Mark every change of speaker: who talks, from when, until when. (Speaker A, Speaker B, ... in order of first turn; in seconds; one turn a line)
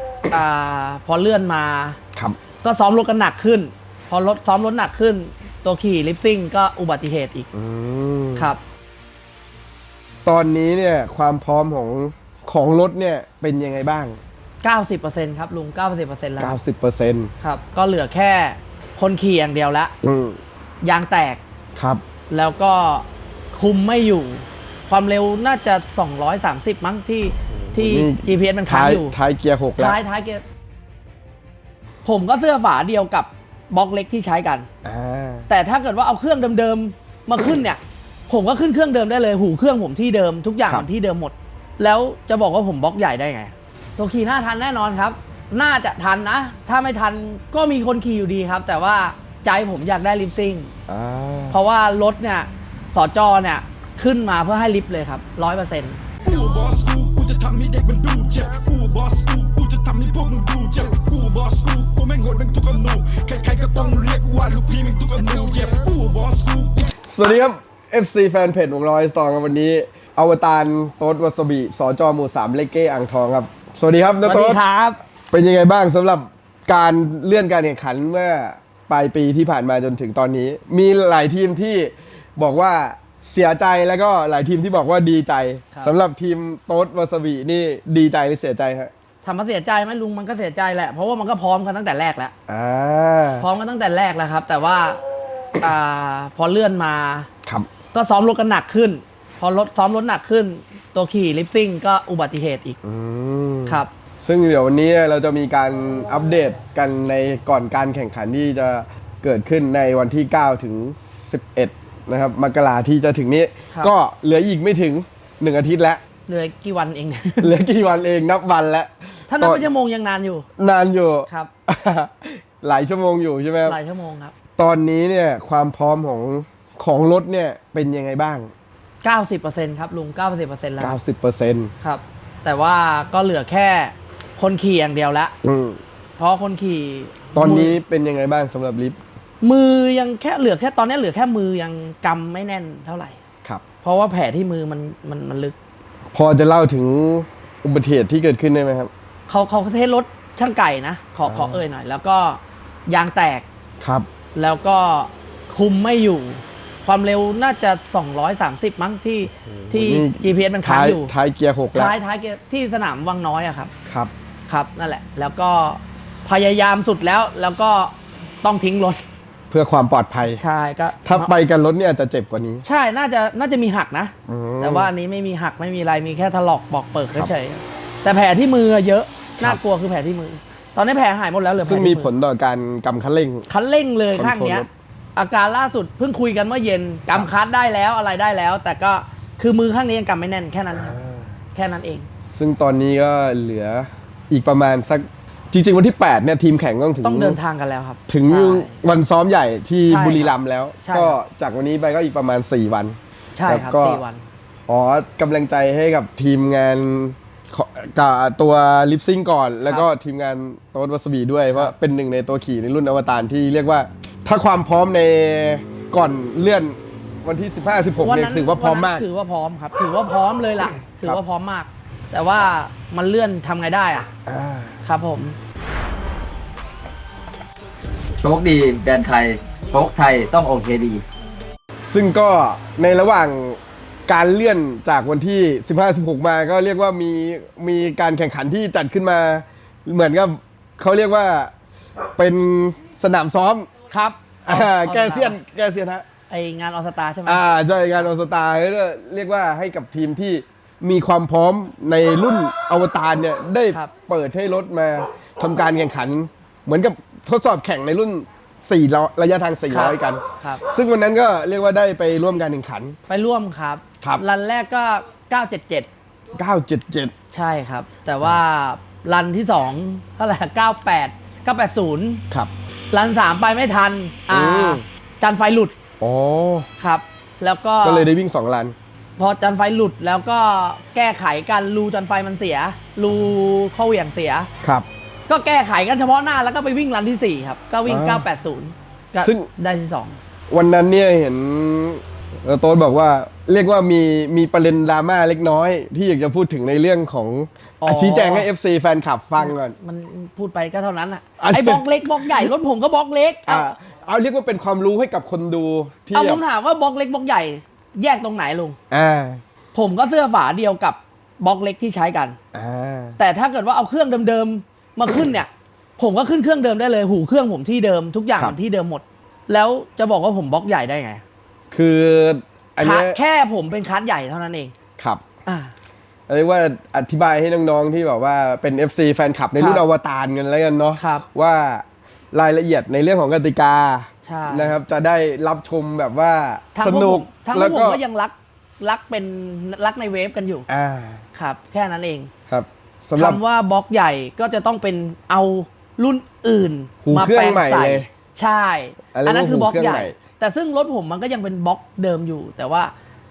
Speaker A: 0.3-2.0
Speaker A: 2.6-7.5
Speaker B: 7.5-8.5
Speaker B: 10.2-14.2
Speaker A: 14.6-16.6
Speaker B: 16.4-17.3
Speaker A: 17.4-19.9
Speaker B: 20.0-20.4
Speaker A: 20.8-21.4
Speaker B: 21.8-22.0
Speaker A: 22.3-29.1
Speaker B: 27.6-30.0
Speaker A: 29.8-30.4
Speaker A: 32.0-34.7
Speaker B: 34.8-35.5
Speaker A: 35.5-50.7
Speaker B: 50.9-51.6
Speaker A: 51.5-56.0
Speaker C: 56.2-66.9
Speaker B: 67.0-74.6
Speaker A: 74.2-75.0
Speaker B: 75.3-88.9
Speaker A: 89.2-92.3
Speaker B: 92.5-93.5
Speaker A: 93.4-95.0
Speaker A: 95.6-97.3
Speaker B: 97.5-97.7
Speaker A: 97.9-102.8
Speaker B: 102.8-116.0
Speaker A: 116.3-117.6
Speaker B: 117.4-119.7
Speaker A: 119.3-120.5
Speaker B: 120.6-123.8
Speaker A: 123.7-124.3
Speaker B: 124.6-128.5
Speaker A: 129.0-131.0
Speaker B: 130.8-131.7
Speaker A: 131.8-135.3
Speaker B: 135.4-135.8
Speaker A: 136.2-137.8
Speaker B: 137.3-139.0
Speaker A: 139.4-143.2
Speaker A: 143.8-145.5
Speaker B: 146.1-148.9
Speaker A: 149.3-153.4
Speaker B: 151.2-151.6
Speaker B: 153.8-154.1
Speaker A: 154.3-161.1
Speaker B: 159.5-161.9
Speaker A: 161.7-163.7
Speaker B: 163.9-164.1
Speaker A: 164.5-169.0
Speaker B: 169.5-170.4
Speaker A: 170.4-171.3
Speaker B: 171.0-172.6
Speaker A: 172.6-182.1
Speaker B: 174.3-174.9
Speaker B: 181.6-183.5
Speaker A: 183.5-190.9
Speaker B: 184.1-184.7
Speaker B: 190.7-191.3
Speaker A: 191.5-192.1
Speaker B: 192.3-197.4
Speaker A: 197.0-198.8
Speaker B: 198.1-204.0
Speaker A: 199.9-201.2
Speaker A: 203.3-204.2
Speaker B: 204.7-219.0
Speaker A: 218.0-224.1
Speaker B: 224.2-224.8
Speaker A: 224.8-225.3
Speaker D: 228.2-231.0
Speaker B: 231.9-241.5
Speaker B: 242.2-243.7
Speaker A: 243.9-245.4
Speaker B: 244.4-246.0
Speaker A: 246.3-247.4
Speaker B: 247.2-263.0
Speaker A: 259.7-260.6
Speaker A: 263.1-265.9
Speaker B: 266.3-267.1
Speaker A: 267.3-272.2
Speaker A: 272.9-275.7
Speaker B: 274.3-274.8
Speaker B: 276.0-276.7
Speaker A: 276.8-278.1
Speaker B: 277.8-278.7
Speaker A: 279.2-284.5
Speaker A: 285.3-290.2
Speaker B: 287.9-288.2
Speaker B: 289.2-289.5
Speaker B: 290.5-299.8
Speaker A: 297.8-298.5
Speaker A: 299.4-303.7
Speaker B: 301.4-302.5
Speaker B: 303.5-306.4
Speaker A: 306.1-308.8
Speaker B: 308.9-309.4
Speaker A: 309.7-312.4
Speaker B: 312.5-313.2
Speaker A: 313.2-321.2
Speaker B: 321.7-323.2
Speaker A: 322.8-324.7
Speaker B: 325.0-325.2
Speaker A: 325.4-325.7
Speaker B: 326.3-338.0
Speaker A: 329.5-329.8
Speaker A: 331.0-331.2
Speaker A: 334.2-334.8
Speaker A: 336.7-340.7
Speaker B: 340.7-341.2
Speaker A: 341.3-342.3
Speaker B: 342.5-343.4
Speaker A: 343.1-352.9
Speaker B: 347.0-348.1
Speaker B: 349.1-350.1